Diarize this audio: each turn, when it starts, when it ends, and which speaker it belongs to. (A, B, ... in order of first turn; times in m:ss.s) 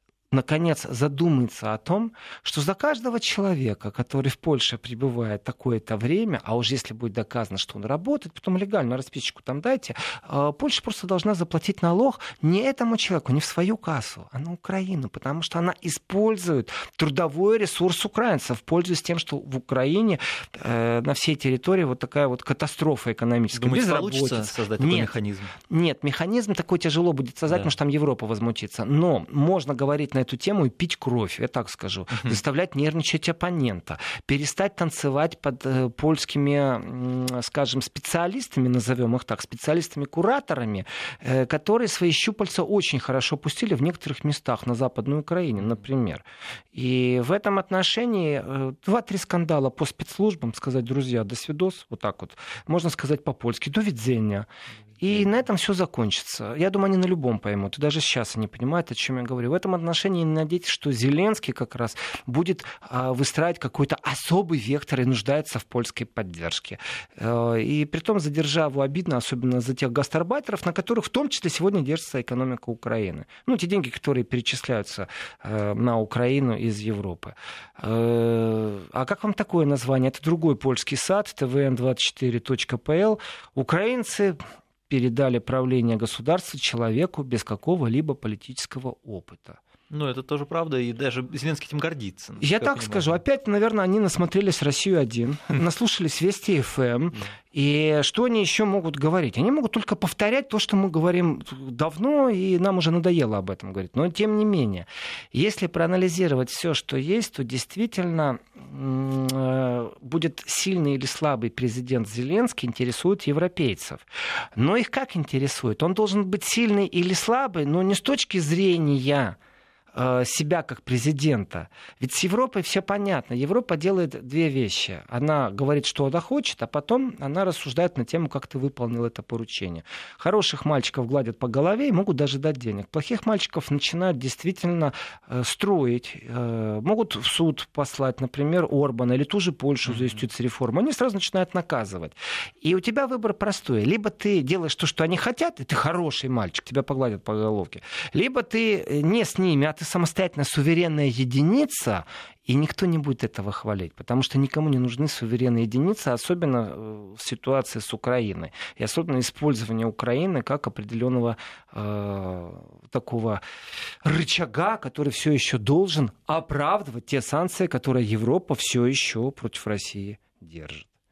0:00.3-0:54.5 A
0:23.5-0:25.6 B
0:55.0-1:29.6 A
1:29.9-1:33.2 B
1:32.4-1:54.0 A
1:54.6-1:59.4 A
1:59.9-2:43.4 A
2:19.9-2:20.1 B
2:44.0-2:50.9 A